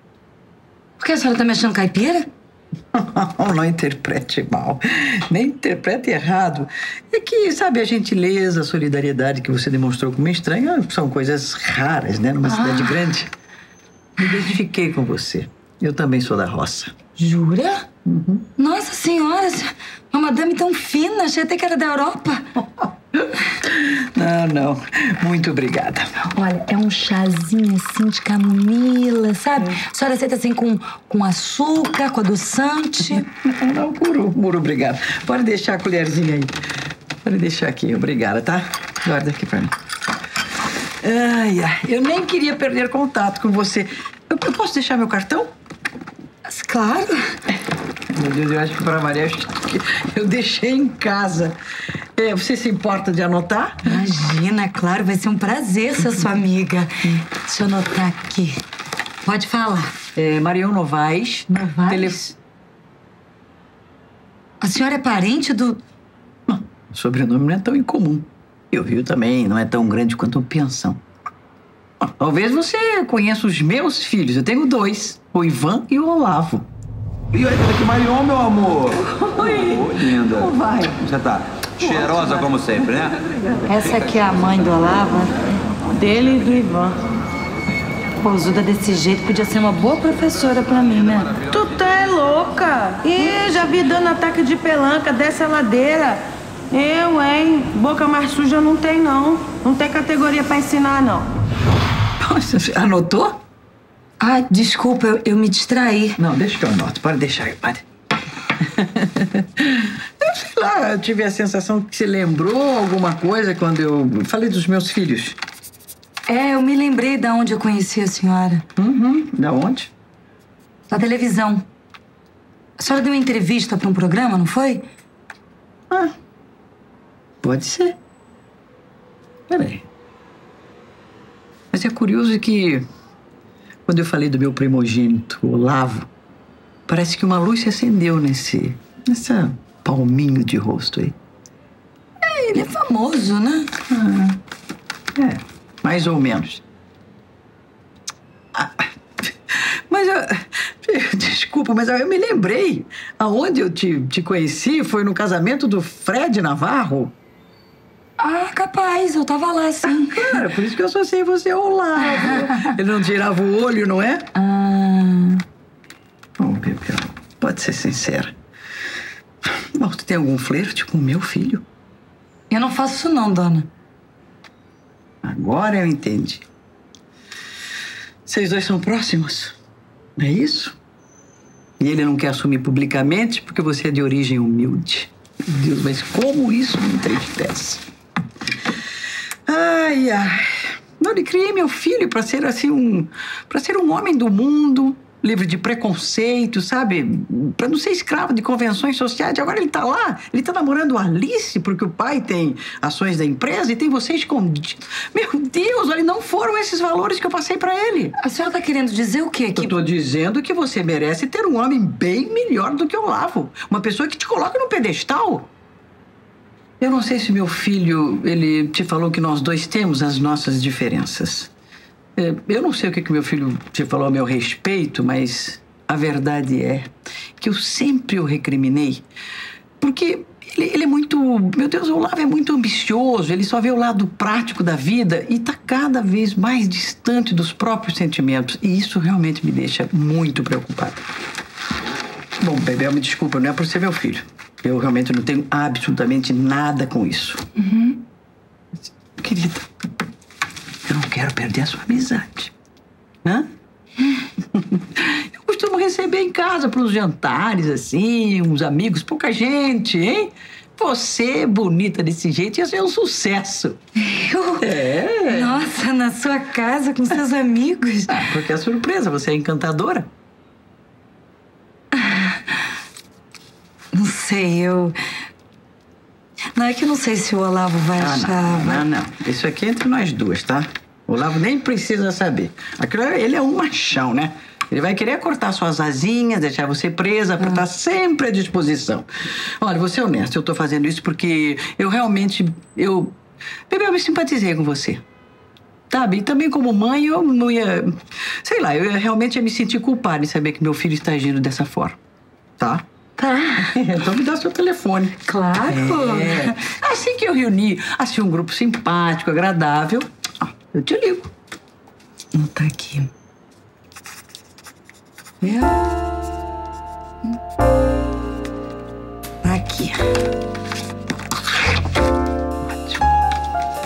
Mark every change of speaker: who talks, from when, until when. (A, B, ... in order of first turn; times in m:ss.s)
0:01.0-0:02.3 A
0:02.9-0:13.3 B
0:12.5-0:13.0 A
0:14.2-0:16.9 B
0:17.2-0:17.8 A
0:18.0-0:18.5 B
0:18.6-0:22.5 A
0:22.8-0:26.2 B
0:26.2-0:33.2 A
0:33.1-0:36.5 B
0:37.2-0:39.7 B
0:41.0-0:45.5 B
0:46.5-0:47.2 A
0:48.1-0:51.6 B
0:52.2-0:53.9 B
0:53.8-0:58.6 A
0:59.2-0:59.9 A
1:00.1-1:02.4 B
1:01.5-1:02.2 A
1:04.6-1:05.8 A
1:06.5-1:11.0 B
1:12.2-1:16.7 B
1:17.3-1:19.0 C
1:18.9-1:23.5 B
1:19.6-1:20.4 C
1:21.1-1:23.1 C
1:23.6-1:25.5 A
1:25.8-1:27.0 D
1:28.2-1:31.4 A
1:31.4-1:41.3 D
1:42.2-1:43.4 B
1:44.2-1:46.2 A
1:46.2-1:47.8 B
1:48.5-1:55.4 B
1:56.3-1:58.6 A
1:58.8-1:59.9 B
2:00.9-2:01.6 A
2:02.8-2:04.8 A
2:07.4-2:08.0 B
2:09.5-2:09.8 B
2:11.7-2:12.8 B
2:13.9-2:16.1 B
2:16.9-2:21.2 B
2:22.2-2:23.7 A
2:23.9-2:24.4 B
2:25.1-2:26.6 B
2:28.5-2:37.1 B
2:38.2-2:40.4 A
2:39.9-2:44.3 B
2:42.0-2:42.7 A
2:44.3-2:45.4 A
2:46.4-2:48.3 B
2:49.6-2:51.6 B
2:52.5-2:53.7 A
2:55.2-2:56.4 B
2:58.2-2:59.6 B
3:00.2-3:00.8 B
3:01.8-3:07.8 B
3:09.5-3:28.2 B
3:28.2-3:29.8 A
3:29.6-3:35.5 B
3:36.8-3:41.5 B
3:42.2-3:49.0 B
3:49.8-4:01.0 B
4:02.4-4:07.4 B
4:07.6-4:08.0 A
4:09.1-4:09.7 B
4:10.8-4:12.5 B
4:14.4-4:23.8 B
4:24.0-4:24.7 A
4:24.6-4:25.6 B
4:25.2-4:28.2 A
4:28.1-4:30.1 B
4:31.9-4:32.5 A
4:33.9-4:34.9 A
4:36.5-4:38.8 A
4:38.0-4:53.2 B
4:53.7-4:55.0 B
4:55.9-5:02.0 B
5:03.2-5:03.8 A
5:03.6-5:11.3 B
5:05.3-5:06.6 A
5:12.3-5:13.1 A
5:15.4-5:15.8 A
5:19.4-5:20.0 A
5:22.6-5:23.0 B